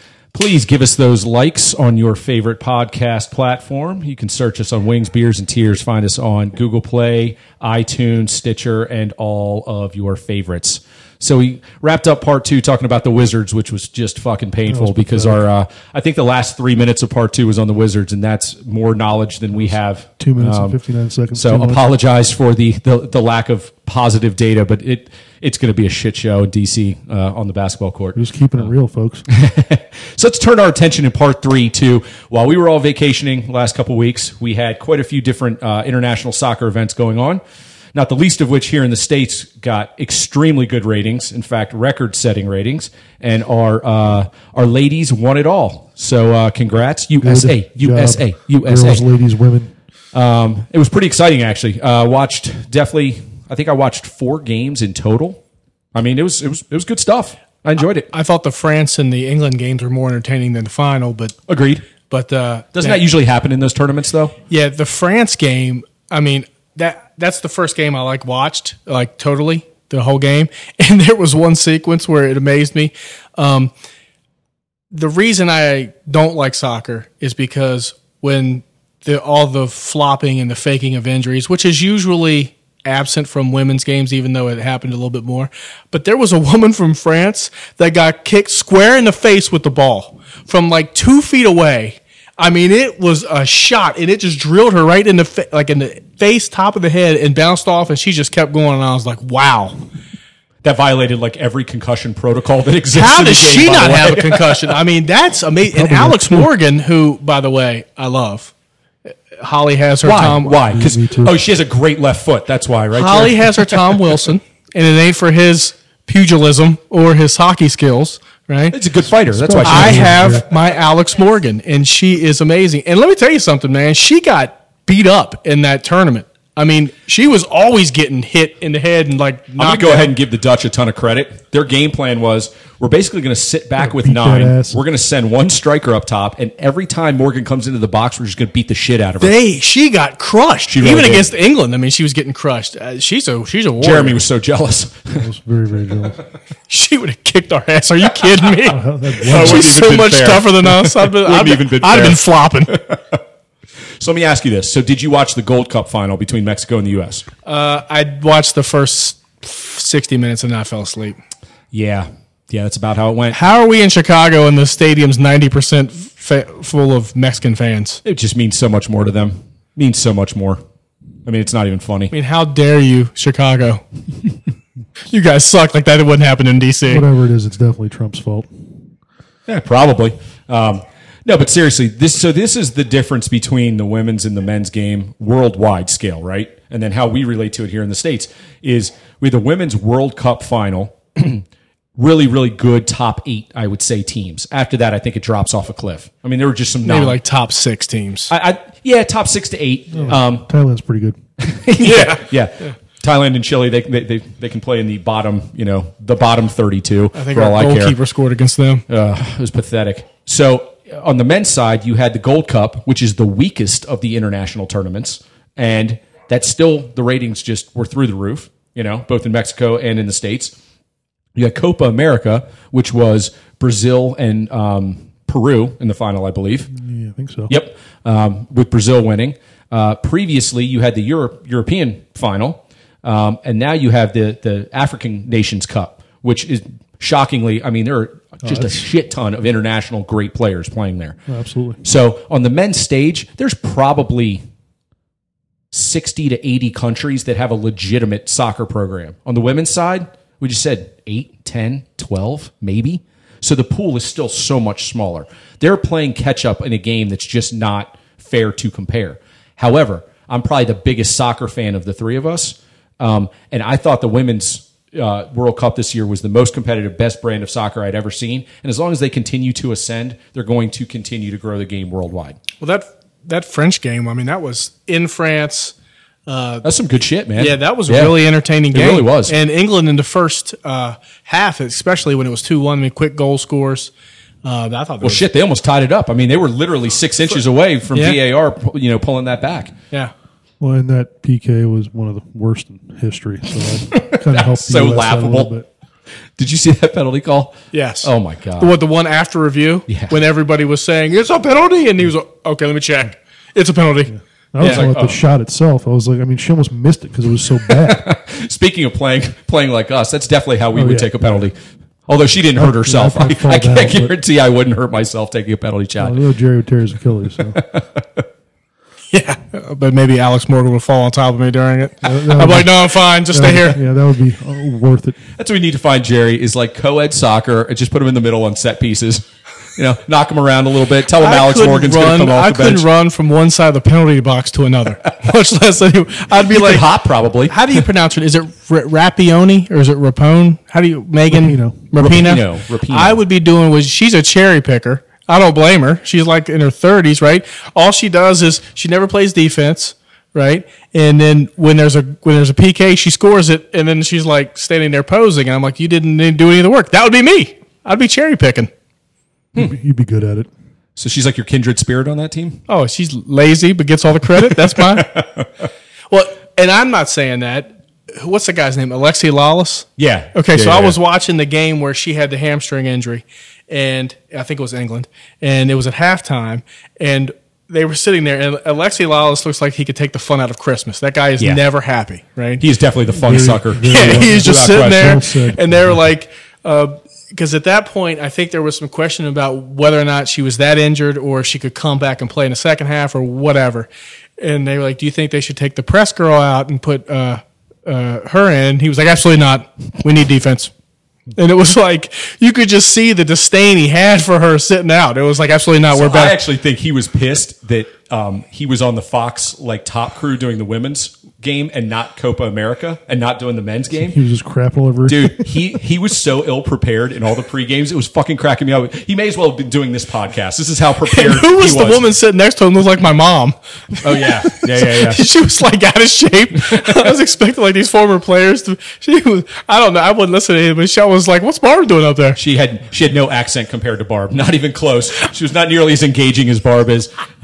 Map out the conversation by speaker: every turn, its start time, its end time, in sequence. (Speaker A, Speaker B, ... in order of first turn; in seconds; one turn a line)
Speaker A: 0.3-20.8
Speaker B: 14.7-15.4
Speaker B: 19.6-21.8
Speaker A: 21.3-28.7
Speaker B: 28.1-29.2
Speaker A: 29.3-37.4
Speaker A: 37.9-49.0
Speaker B: 47.2-49.7
Speaker A: 50.1-55.4
Speaker A: 55.9-58.1
Speaker C: 58.1-61.3
Speaker A: 61.5-61.9
Speaker C: 62.1-63.0
Speaker A: 62.7-64.3
Speaker C: 64.5-73.7
Speaker C: 74.9-99.8
Speaker A: 100.6-104.7
Speaker C: 102.9-108.5
Speaker B: 105.7-106.5
Speaker C: 109.4-110.7
Speaker A: 110.0-114.1
Speaker B: 110.7-111.3
Speaker C: 112.9-118.8
Speaker A: 118.7-120.4
Speaker B: 119.2-120.4
Speaker C: 119.6-130.1
Speaker A: 129.6-139.3
Speaker B: 133.8-134.8
Speaker C: 139.2-144.2
Speaker A: 140.7-141.3
Speaker A: 143.8-145.2
Speaker B: 145.2-146.2
Speaker C: 146.7-152.8
Speaker B: 148.6-149.8
Speaker A: 149.2-153.2
Speaker A: 154.0-157.2
Speaker C: 157.4-161.2
Speaker A: 161.7-163.4
Speaker C: 163.3-168.0
Speaker A: 168.0-170.6
Speaker A: 171.2-172.1
Speaker C: 172.1-173.8
Speaker C: 175.1-177.1
Speaker B: 176.8-178.5
Speaker A: 179.5-191.4
Speaker A: 192.0-197.2
Speaker C: 196.8-198.3
Speaker A: 198.3-200.5
Speaker B: 199.9-201.2
Speaker A: 201.4-208.0
Speaker C: 201.8-202.2
Speaker C: 207.1-208.8
Speaker A: 208.9-220.6
Speaker A: 221.3-226.7
Speaker B: 226.7-227.5
Speaker A: 227.5-241.2
Speaker B: 238.4-238.8
Speaker B: 241.3-241.8
Speaker A: 241.8-244.4
Speaker A: 245.7-272.4
Speaker C: 272.6-275.7
Speaker C: 276.3-276.6
Speaker A: 276.6-279.3
Speaker C: 277.4-283.9
Speaker C: 284.4-285.2
Speaker A: 285.0-289.7
Speaker C: 287.9-288.2
Speaker B: 290.6-295.7
Speaker A: 293.9-295.5
Speaker A: 296.4-298.7
Speaker C: 297.7-304.9
Speaker A: 299.9-300.2
Speaker B: 304.1-308.1
Speaker A: 304.6-305.2
Speaker A: 307.7-311.6
Speaker B: 310.7-311.1
Speaker A: 312.1-316.3
Speaker B: 312.5-314.1
Speaker B: 316.0-317.6
Speaker A: 317.6-318.2
Speaker C: 319.1-323.8
Speaker B: 322.0-325.2
Speaker A: 325.4-332.9
Speaker C: 331.1-336.9
Speaker A: 336.4-337.7
Speaker C: 337.5-358.7
Speaker B: 341.3-341.9
Speaker A: 342.0-343.2
Speaker B: 359.5-360.5
Speaker A: 360.9-362.6
Speaker C: 362.7-365.1
Speaker A: 364.8-365.5
Speaker C: 366.1-382.6
Speaker A: 370.0-371.0
Speaker A: 382.6-385.1
Speaker B: 383.1-385.8
Speaker C: 383.8-400.7
Speaker C: 401.4-406.4
Speaker A: 405.9-414.2
Speaker B: 413.9-415.6
Speaker A: 415.1-422.1
Speaker C: 421.1-432.4
Speaker A: 424.0-425.3
Speaker A: 432.4-437.1